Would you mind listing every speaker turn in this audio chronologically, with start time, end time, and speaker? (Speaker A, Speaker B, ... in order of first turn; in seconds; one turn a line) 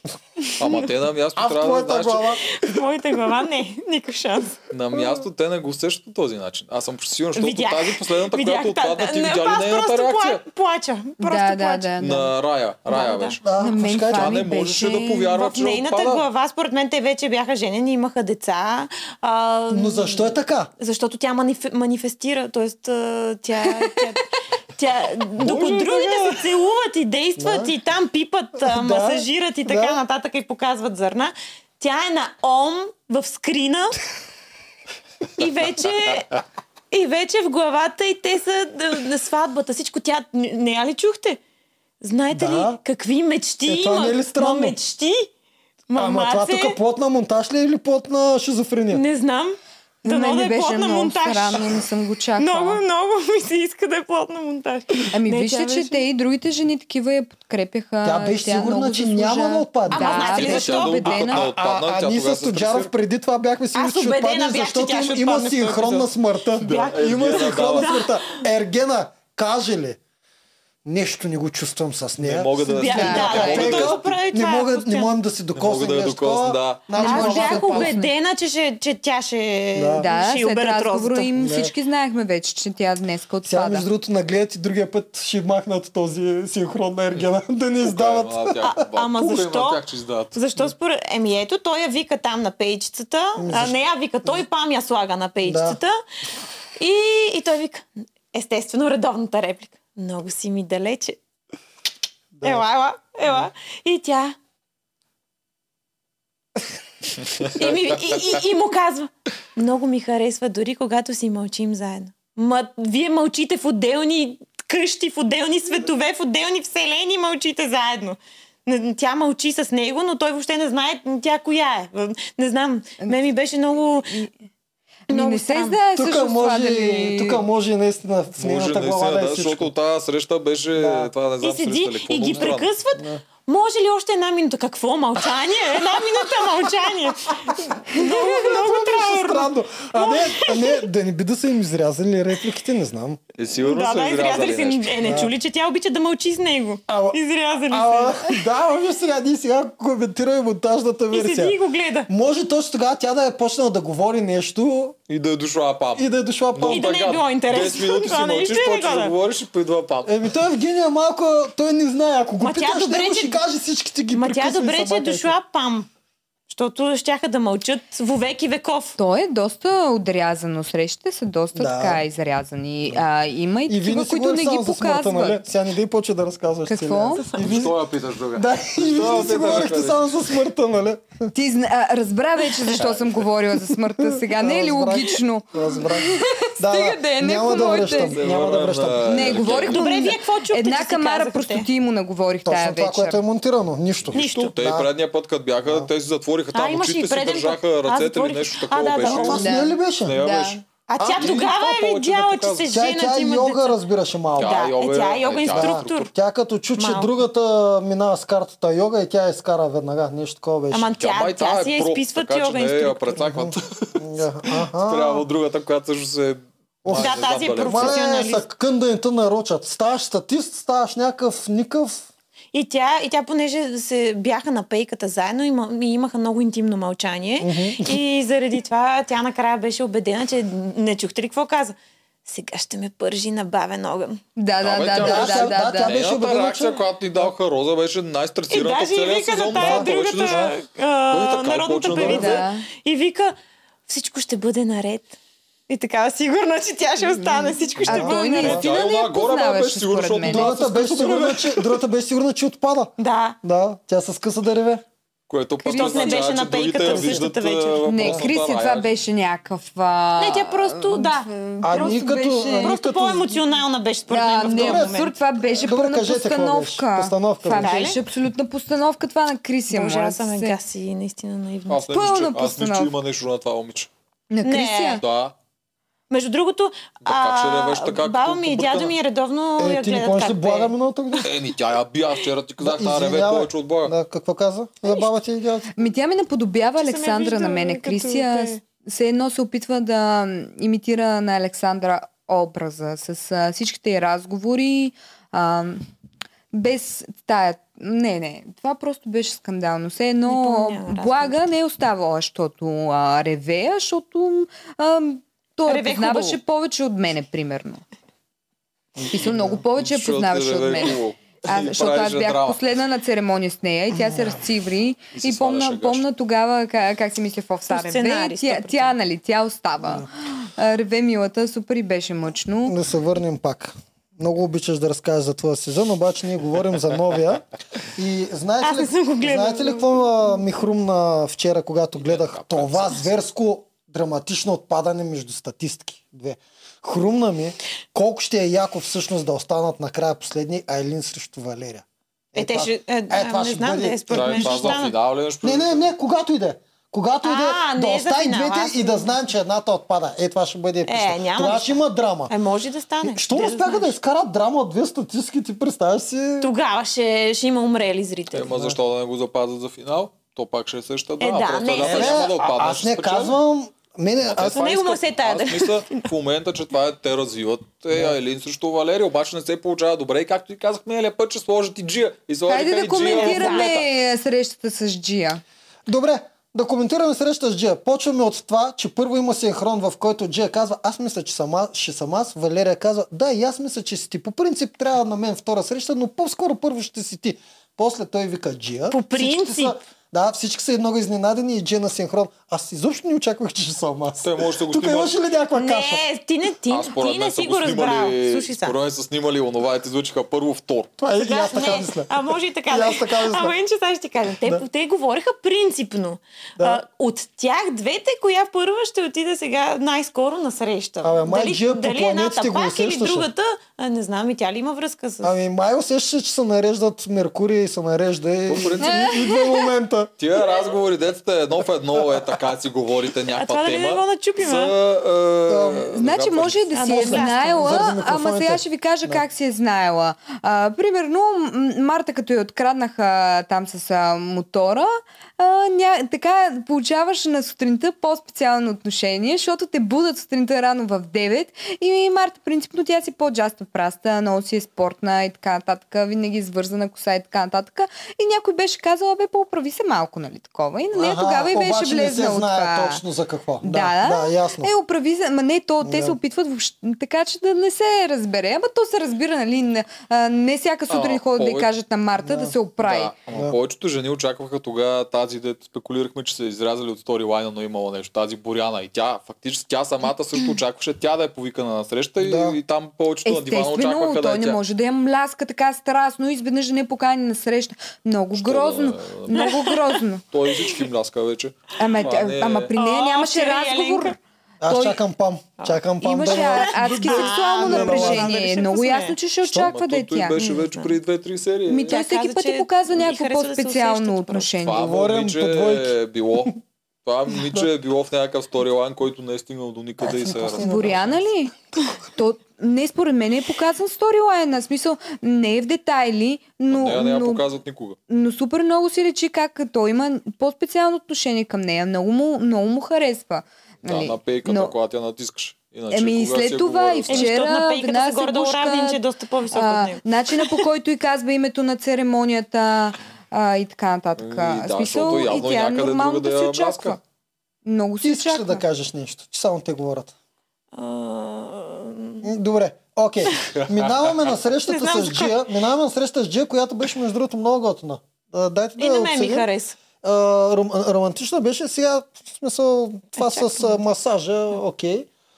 Speaker A: 0.4-0.9
Speaker B: 0.6-2.4
Speaker C: 1.4-2.5
Speaker A: 2.5-4.6
Speaker B: 4.7-10.4
Speaker A: 7.4-11.9
Speaker D: 11.2-12.3
Speaker B: 12.0-13.4
Speaker A: 12.9-13.4
Speaker C: 13.4-14.4
Speaker D: 13.6-15.3
Speaker B: 14.0-16.2
Speaker A: 15.3-34.0
Speaker C: 19.7-20.7
Speaker C: 25.4-26.4
Speaker C: 27.4-27.7
Speaker C: 28.6-30.0
Speaker A: 35.4-36.4
Speaker A: 36.9-41.4
Speaker A: 42.0-45.3
Speaker C: 42.3-42.8
Speaker C: 43.6-44.8
Speaker A: 45.9-46.8
Speaker C: 46.0-49.0
Speaker A: 48.9-51.8
Speaker D: 50.0-52.8
Speaker A: 52.4-56.0
Speaker D: 55.1-61.2
Speaker C: 58.0-70.0
Speaker A: 59.9-61.4
Speaker B: 60.2-62.9
Speaker A: 63.7-68.2
Speaker B: 66.6-68.0
Speaker C: 70.8-78.0
Speaker B: 72.2-74.1
Speaker A: 72.7-75.1
Speaker D: 72.8-73.6
Speaker B: 75.5-76.9
Speaker D: 77.0-78.1
Speaker A: 77.0-81.3
Speaker C: 79.7-80.1
Speaker D: 80.0-83.9
Speaker C: 81.4-81.7
Speaker C: 83.5-88.7
Speaker B: 87.8-90.4
Speaker A: 88.6-89.8
Speaker A: 90.3-96.0
Speaker C: 93.4-93.8
Speaker C: 95.4-95.8
Speaker A: 96.8-101.2
Speaker C: 102.4-102.6
Speaker A: 102.4-104.4
Speaker A: 107.4-124.3
Speaker D: 125.1-127.4
Speaker A: 125.1-125.8
Speaker C: 126.0-129.7
Speaker B: 128.4-132.7
Speaker C: 130.8-131.1
Speaker A: 131.4-140.8
Speaker C: 132.4-133.2
Speaker C: 137.9-143.2
Speaker B: 143.4-145.3
Speaker A: 143.6-148.4
Speaker C: 145.0-145.3
Speaker C: 146.9-147.2
Speaker C: 147.7-151.6
Speaker A: 151.1-152.1
Speaker C: 152.1-155.0
Speaker B: 155.1-160.2
Speaker C: 156.0-156.9
Speaker A: 156.6-159.1
Speaker C: 160.1-165.3
Speaker A: 162.4-163.4
Speaker A: 164.1-165.9
Speaker A: 166.5-169.0
Speaker D: 169.0-175.4
Speaker C: 171.6-172.0
Speaker C: 173.7-177.8
Speaker D: 176.7-177.3
Speaker B: 177.3-180.2
Speaker C: 178.3-181.3
Speaker D: 181.3-188.2
Speaker B: 182.7-183.2
Speaker C: 184.2-189.6
Speaker B: 187.8-190.1
Speaker D: 189.1-193.2
Speaker A: 189.7-191.7
Speaker C: 192.4-194.9
Speaker B: 194.1-199.5
Speaker A: 194.1-194.5
Speaker C: 195.7-195.9
Speaker A: 196.5-199.5
Speaker C: 199.0-200.2
Speaker D: 199.4-200.6
Speaker B: 200.0-202.7
Speaker A: 200.9-203.8
Speaker C: 201.0-201.4
Speaker C: 202.7-204.6
Speaker B: 204.4-206.1
Speaker A: 204.4-206.1
Speaker C: 205.5-210.9
Speaker A: 206.8-207.1
Speaker A: 210.7-213.2
Speaker B: 211.0-218.0
Speaker C: 213.2-215.3
Speaker C: 216.8-222.1
Speaker A: 216.9-218.4
Speaker A: 222.5-234.2
Speaker C: 227.4-228.0
Speaker D: 234.4-236.0
Speaker B: 234.6-240.6
Speaker C: 234.9-237.3
Speaker A: 238.5-243.4
Speaker C: 239.6-240.6
Speaker B: 241.1-242.4
Speaker C: 241.9-242.3
Speaker D: 242.0-242.7
Speaker A: 243.9-245.2
Speaker A: 245.7-248.6
Speaker B: 247.8-251.7
Speaker C: 247.8-248.6
Speaker D: 247.9-250.6
Speaker C: 250.2-254.8
Speaker A: 250.7-251.3
Speaker A: 253.0-253.4
Speaker B: 255.3-258.9
Speaker D: 255.6-256.3
Speaker A: 255.7-257.9
Speaker C: 256.8-257.2
Speaker D: 257.9-262.8
Speaker C: 258.0-258.3
Speaker A: 260.2-265.1
Speaker C: 261.6-263.4
Speaker D: 264.1-270.6
Speaker C: 264.4-267.8
Speaker A: 267.5-268.0
Speaker A: 269.7-271.8
Speaker B: 271.7-273.9
Speaker D: 271.9-272.9
Speaker D: 274.3-275.0
Speaker A: 274.4-275.0
Speaker B: 275.0-275.3
Speaker A: 276.1-280.7
Speaker B: 277.0-278.9
Speaker C: 279.6-281.3
Speaker B: 281.2-283.9
Speaker C: 282.6-285.7
Speaker D: 285.7-295.9
Speaker A: 286.8-288.6
Speaker D: 296.5-307.8
Speaker A: 300.3-301.4
Speaker A: 305.7-306.4
Speaker C: 309.0-309.6
Speaker D: 309.1-322.8
Speaker B: 309.2-312.6
Speaker C: 313.9-314.4
Speaker B: 315.1-316.0
Speaker A: 317.7-318.9
Speaker C: 322.7-327.4
Speaker C: 327.9-344.9
Speaker A: 328.6-330.1
Speaker B: 332.0-333.1
Speaker A: 342.4-344.9
Speaker B: 344.1-345.9
Speaker C: 345.4-352.3
Speaker A: 347.2-349.2
Speaker A: 350.9-353.9
Speaker C: 353.0-356.5
Speaker A: 356.4-358.5
Speaker B: 358.3-363.4
Speaker C: 358.5-358.8
Speaker A: 361.2-362.3
Speaker C: 361.8-364.7
Speaker B: 364.2-373.8
Speaker A: 364.5-365.9
Speaker D: 372.5-375.4
Speaker A: 373.0-373.9
Speaker C: 375.9-396.0
Speaker A: 388.9-389.8
Speaker B: 394.2-395.1
Speaker A: 395.6-398.8
Speaker B: 396.7-400.9
Speaker C: 401.0-403.5
Speaker A: 401.2-415.4
Speaker C: 411.0-413.3
Speaker C: 415.2-420.1
Speaker B: 418.5-419.2
Speaker D: 418.8-419.4
Speaker B: 420.2-426.7
Speaker A: 423.4-424.7
Speaker C: 425.5-425.9
Speaker D: 425.9-453.0
Speaker A: 426.7-427.9
Speaker C: 426.9-429.2
Speaker C: 450.9-454.7
Speaker D: 453.6-463.1
Speaker C: 455.8-456.2
Speaker B: 460.9-461.7
Speaker C: 462.2-462.6
Speaker B: 462.8-474.6
Speaker C: 472.2-472.6
Speaker D: 473.2-480.2
Speaker B: 478.4-479.6
Speaker A: 479.4-479.7
Speaker B: 480.3-482.7
Speaker D: 481.8-485.0
Speaker A: 482.8-484.2
Speaker C: 484.6-488.3
Speaker A: 485.6-489.2
Speaker D: 486.0-490.5
Speaker B: 489.5-492.0
Speaker A: 490.4-490.9
Speaker D: 491.7-494.8
Speaker A: 491.8-494.5
Speaker B: 494.6-500.7
Speaker C: 494.8-495.9
Speaker C: 500.0-501.2
Speaker D: 500.6-501.5
Speaker D: 502.1-507.5
Speaker B: 506.7-508.0
Speaker D: 508.1-514.8
Speaker B: 513.8-517.3
Speaker D: 515.9-519.0
Speaker A: 517.1-520.6
Speaker D: 519.5-527.0
Speaker B: 524.2-527.0
Speaker D: 527.6-528.6
Speaker C: 528.0-530.1
Speaker A: 530.7-532.3
Speaker C: 532.2-539.5
Speaker B: 533.5-534.4
Speaker A: 534.7-535.5
Speaker A: 538.8-539.8
Speaker C: 540.0-545.1
Speaker A: 543.2-543.8